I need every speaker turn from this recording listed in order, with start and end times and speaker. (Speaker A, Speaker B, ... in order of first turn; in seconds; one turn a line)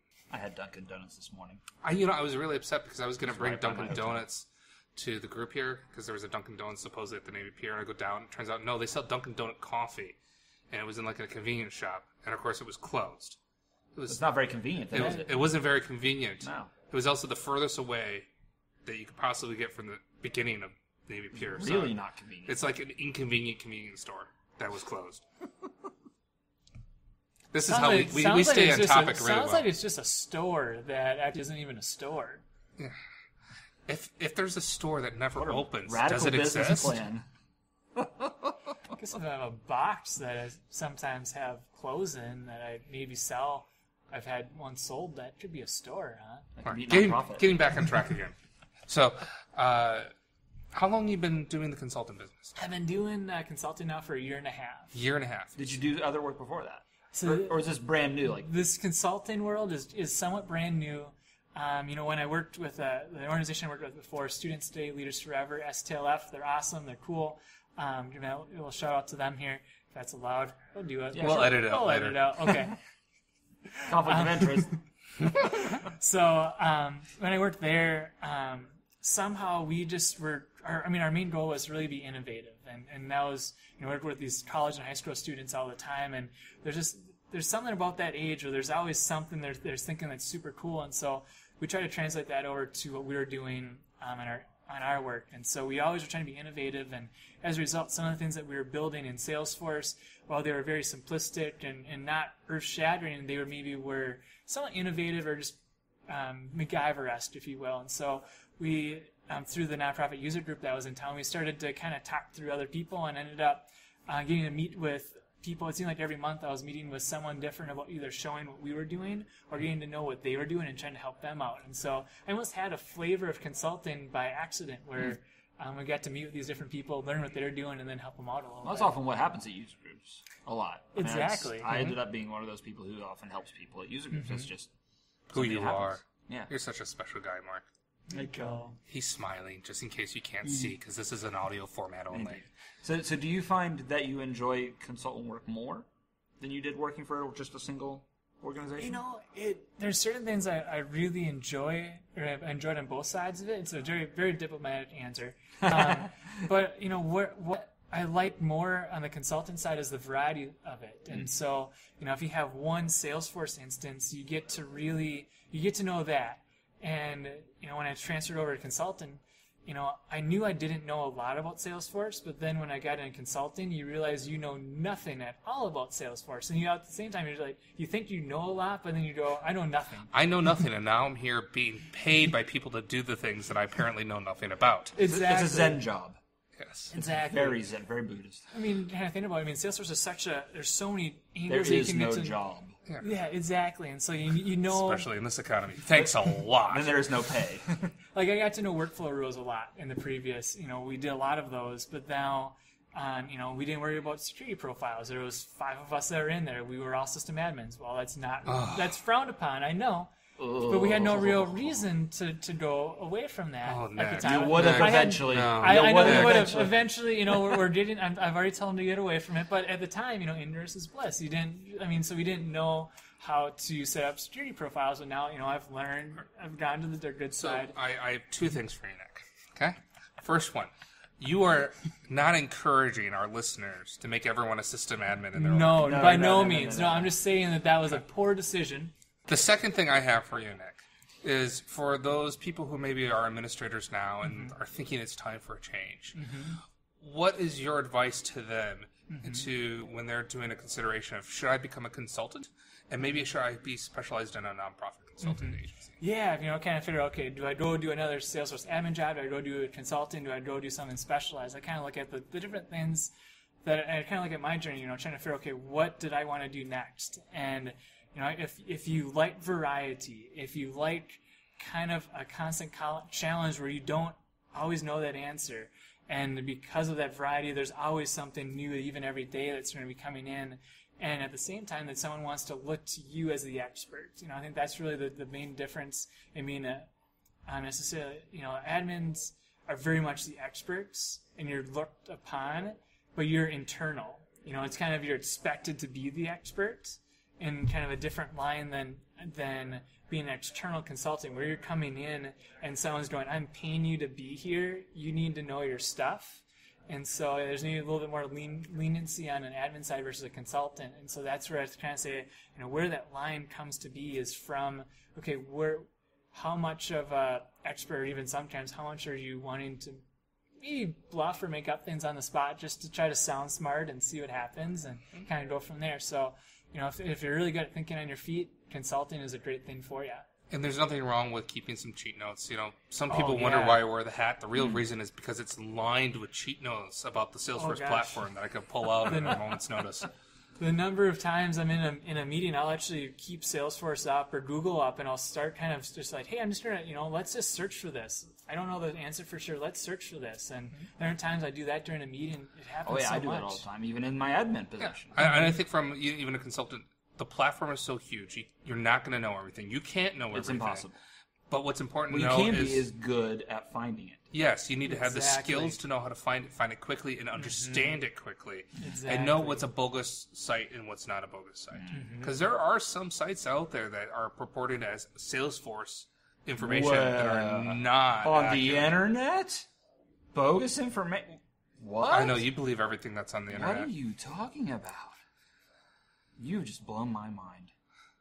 Speaker A: 0.3-1.6
Speaker B: 1.8-10.2
Speaker A: 3.2-4.2
Speaker B: 10.7-13.4
Speaker B: 13.9-14.2
Speaker A: 14.1-15.4
Speaker B: 14.9-18.3
Speaker C: 15.0-15.2
Speaker A: 16.4-16.7
Speaker B: 18.8-25.2
Speaker A: 21.3-22.6
Speaker B: 27.5-29.6
Speaker C: 27.7-32.4
Speaker B: 33.9-37.0
Speaker A: 35.3-37.2
Speaker A: 37.9-38.9
Speaker C: 38.9-46.5
Speaker A: 46.6-47.5
Speaker B: 46.6-48.4
Speaker B: 48.9-50.1
Speaker B: 50.7-52.5
Speaker C: 52.6-55.0
Speaker B: 54.9-55.6
Speaker A: 55.5-58.5
Speaker C: 57.1-57.6
Speaker C: 58.2-72.8
Speaker A: 71.1-71.6
Speaker B: 71.2-72.2
Speaker C: 73.8-128.9
Speaker A: 73.9-74.7
Speaker A: 128.6-134.7
Speaker C: 130.9-131.7
Speaker B: 131.7-132.0
Speaker C: 134.1-134.5
Speaker B: 135.3-137.7
Speaker A: 135.3-136.5
Speaker C: 138.1-138.8
Speaker A: 138.1-138.7
Speaker B: 138.9-142.4
Speaker A: 142.1-145.8
Speaker A: 146.4-149.0
Speaker C: 148.8-180.1
Speaker A: 155.6-156.3
Speaker B: 180.1-184.9
Speaker C: 184.9-185.8
Speaker A: 185.0-186.2
Speaker B: 186.6-186.9
Speaker C: 186.9-187.6
Speaker A: 187.1-188.5
Speaker C: 188.5-192.4
Speaker A: 191.5-192.8
Speaker C: 193.0-195.1
Speaker B: 194.7-197.0
Speaker A: 195.9-197.9
Speaker C: 198.1-227.7
Speaker B: 208.5-208.9
Speaker A: 210.4-211.8
Speaker B: 213.7-216.4
Speaker A: 214.2-216.8
Speaker B: 227.4-236.1
Speaker C: 235.3-238.9
Speaker A: 235.8-237.1
Speaker B: 239.3-246.2
Speaker C: 244.2-244.5
Speaker C: 246.1-246.6
Speaker B: 247.0-255.9
Speaker C: 249.1-249.5
Speaker C: 255.2-263.1
Speaker C: 263.6-286.9
Speaker C: 287.5-320.0
Speaker C: 320.6-330.2
Speaker B: 330.5-340.1
Speaker C: 333.1-333.8
Speaker C: 337.6-338.2
Speaker C: 339.0-339.6
Speaker C: 340.6-353.6
Speaker A: 352.8-355.1
Speaker B: 354.8-360.9
Speaker C: 355.2-355.6
Speaker A: 360.3-361.0
Speaker B: 361.5-362.9
Speaker A: 362.1-364.2
Speaker B: 364.3-379.0
Speaker C: 364.8-365.8
Speaker C: 367.4-367.9
Speaker C: 368.8-369.6
Speaker A: 371.7-372.2
Speaker C: 371.9-372.3
Speaker A: 376.6-379.6
Speaker A: 380.3-382.4
Speaker B: 382.1-383.9
Speaker A: 383.5-385.2
Speaker A: 386.4-387.7